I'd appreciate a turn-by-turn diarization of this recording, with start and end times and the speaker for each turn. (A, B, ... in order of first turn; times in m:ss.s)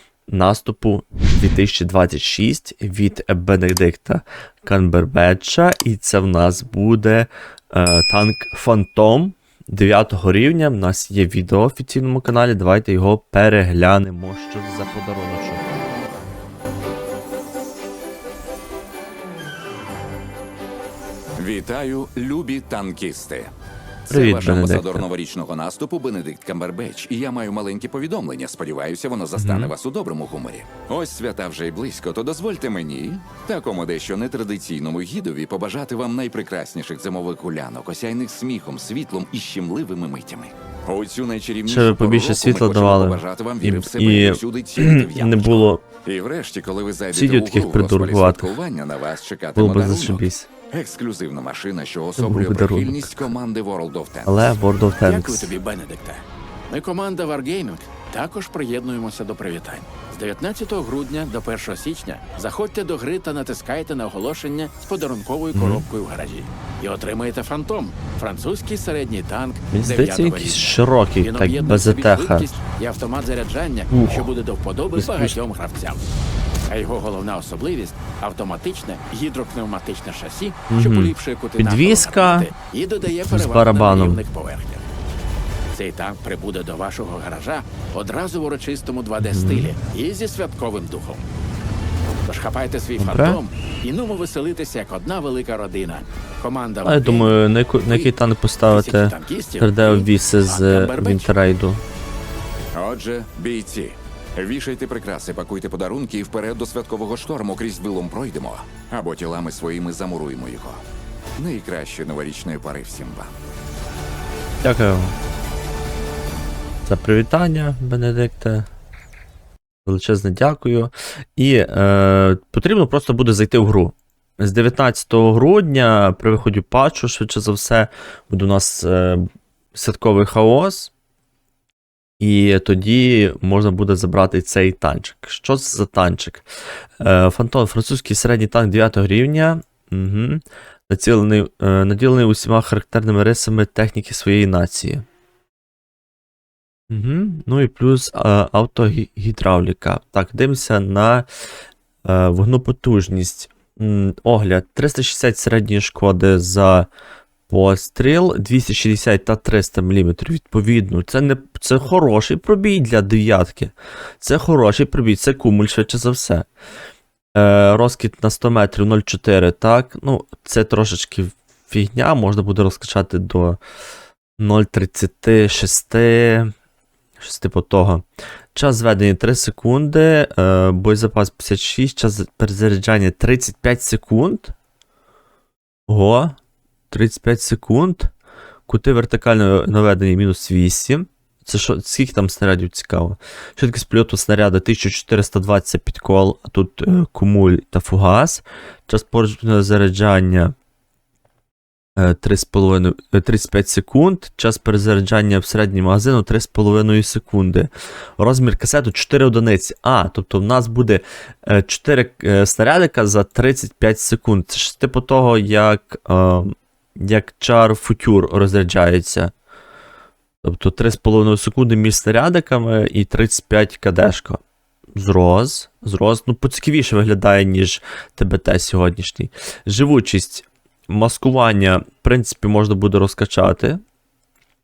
0:00.3-0:15.8 A
0:21.4-0:23.5 B
0:24.1-0:54.6 B
0:24.1-0:25.1 A
0:29.4-0:29.7 A
0:41.6-0:45.8 A
0:47.1-0:48.5 A
0:49.6-0:50.5 A
0:52.2-0:53.3 A
0:54.2-0:55.5 A
0:55.0-1:16.0 C
1:05.5-1:05.8 A
1:09.7-1:12.5 A
1:13.9-1:14.3 A
1:15.0-1:15.4 A
1:16.7-1:24.8 C
1:20.7-1:22.5 A
1:23.2-1:24.2 A
1:25.7-1:31.2 C
1:29.2-1:29.8 A
1:32.2-1:37.3 C
1:33.0-1:33.4 A
1:36.8-1:41.8 A
1:37.8-1:38.1 C
1:38.6-1:41.4 C
1:42.7-1:50.8 B
1:51.4-1:53.3 B
1:54.6-1:55.2 A
1:56.9-1:58.7 A
1:59.8-2:10.9 A
2:12.2-2:16.5 A
2:17.0-2:25.1 A
2:26.9-2:31.3 A
2:32.0-2:36.9 A
2:37.5-2:46.5 A
2:47.4-2:53.6 A
2:54.4-2:56.5 A
2:57.2-3:04.6 A
3:05.9-3:06.4 A
3:06.9-3:08.1 A
3:08.7-3:20.5 A
3:22.0-3:39.3 A
3:40.4-3:44.4 A
3:45.0-3:53.8 A